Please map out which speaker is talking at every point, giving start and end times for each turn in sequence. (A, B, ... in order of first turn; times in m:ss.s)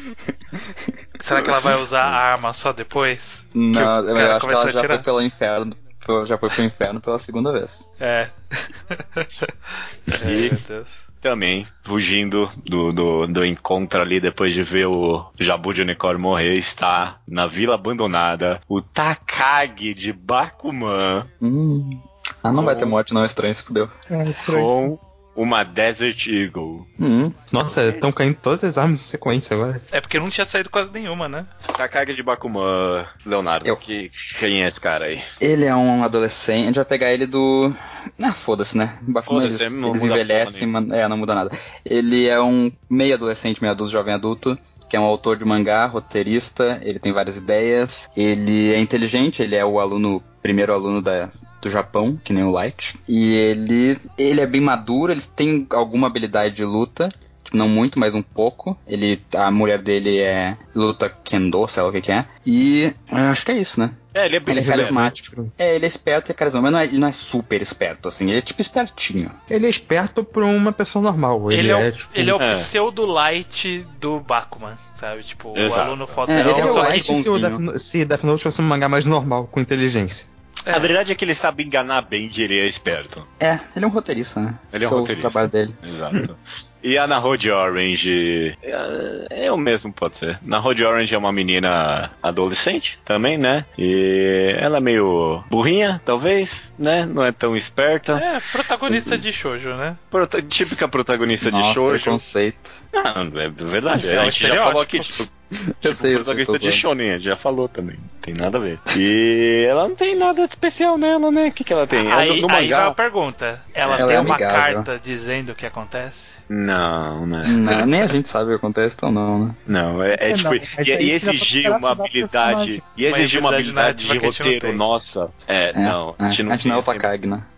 0:00.6-0:01.6 A
0:01.2-0:05.0 B
0:03.5-0:07.9 A
0:08.0-0:11.0 B
0:10.2-0:10.6 C
0:11.2-0:21.3 C
0:21.4-0:24.0 A
0:22.5-0:23.0 C
0:24.1-0:24.9 D
0:24.4-0:26.9 C
0:27.0-0:27.4 A
0:27.5-0:29.8 E
0:27.7-0:28.0 B
0:29.9-0:31.5 B
0:31.7-0:35.3 C
0:35.4-1:09.4 A
0:39.2-0:40.7 C
1:04.1-1:05.1 C
1:04.6-1:05.5 E
1:09.5-1:12.4 E
1:11.5-1:17.1 B
1:12.4-1:12.7 C
1:15.5-1:16.2 C
1:16.3-1:17.6 A
1:16.4-1:20.3 E
1:20.6-1:20.9 B
1:20.7-1:23.3 C
1:23.4-1:25.8 A
1:24.7-1:38.2 C
1:38.1-1:40.0 B
1:38.9-1:39.2 A
1:40.1-1:42.2 C
1:41.4-1:42.8 A
1:42.9-1:45.3 C
1:44.0-1:45.2 B
1:45.6-1:46.8 A
1:45.8-1:53.0 C
1:52.0-1:56.4 B
1:53.9-1:54.9 A
1:56.5-1:58.1 C
1:57.4-1:59.6 A
1:59.7-2:07.1 C
2:00.3-2:02.8 D
2:03.0-2:04.8 B
2:05.7-2:07.5 A